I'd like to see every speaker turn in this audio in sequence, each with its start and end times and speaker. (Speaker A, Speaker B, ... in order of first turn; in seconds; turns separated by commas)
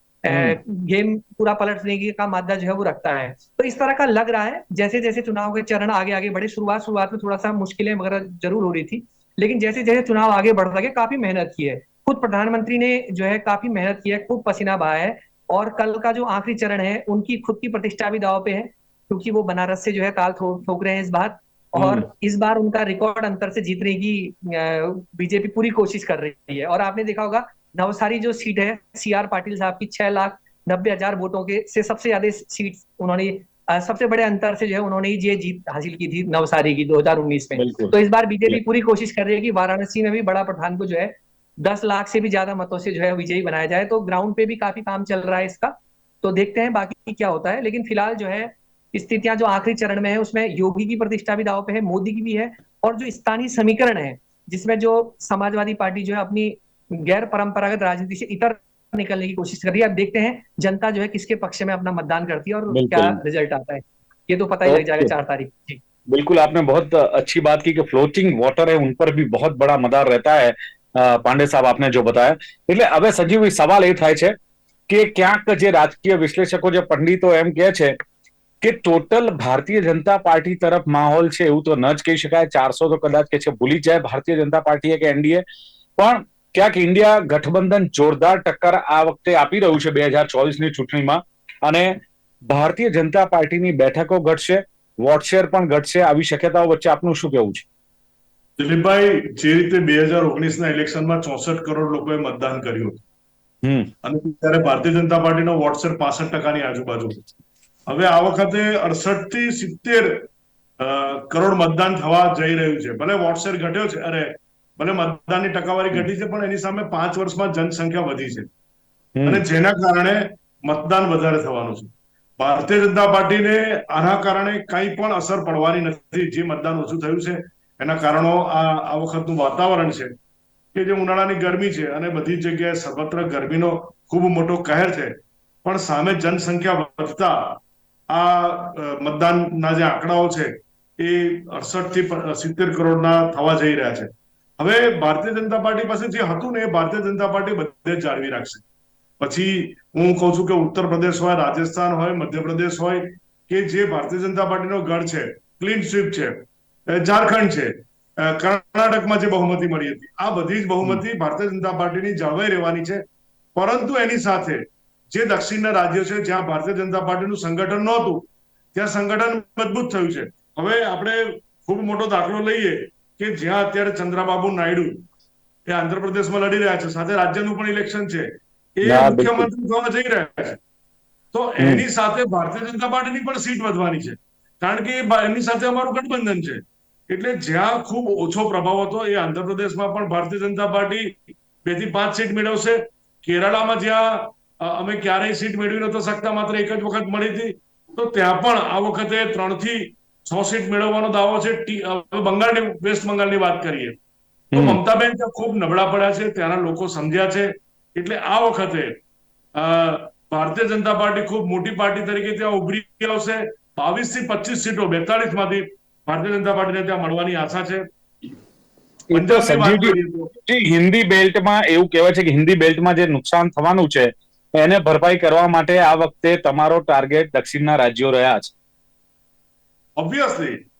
Speaker A: 0.2-65.8, Speaker B: 0.3-0.6, Speaker B: 21.8-22.0, Speaker B: 37.6-37.9, Speaker B: 62.7-63.2, Speaker B: 64.7-65.1, Speaker B: 66.1-74.3, Speaker B: 74.9-78.0, Speaker B: 78.6-85.4, Speaker B: 86.0-97.6, Speaker C: 98.6-103.0, Speaker B: 103.6-103.9, Speaker C: 104.0-107.2, Speaker C: 107.9-110.3, Speaker C: 110.8-118.5, Speaker B: 119.2-119.4, Speaker C: 119.2-130.1, Speaker C: 130.7-148.6, Speaker C: 149.2-156.4, Speaker C: 156.9-163.0, Speaker C: 163.5-175.0, Speaker C: 175.7-180.6, Speaker B: 178.8-179.5, Speaker C: 181.3-204.0, Speaker B: 204.5-204.8, Speaker C: 204.5-208.9, Speaker C: 209.5-217.9, Speaker B: 219.1-228.5, Speaker C: 219.1-220.3, Speaker C: 230.0-230.6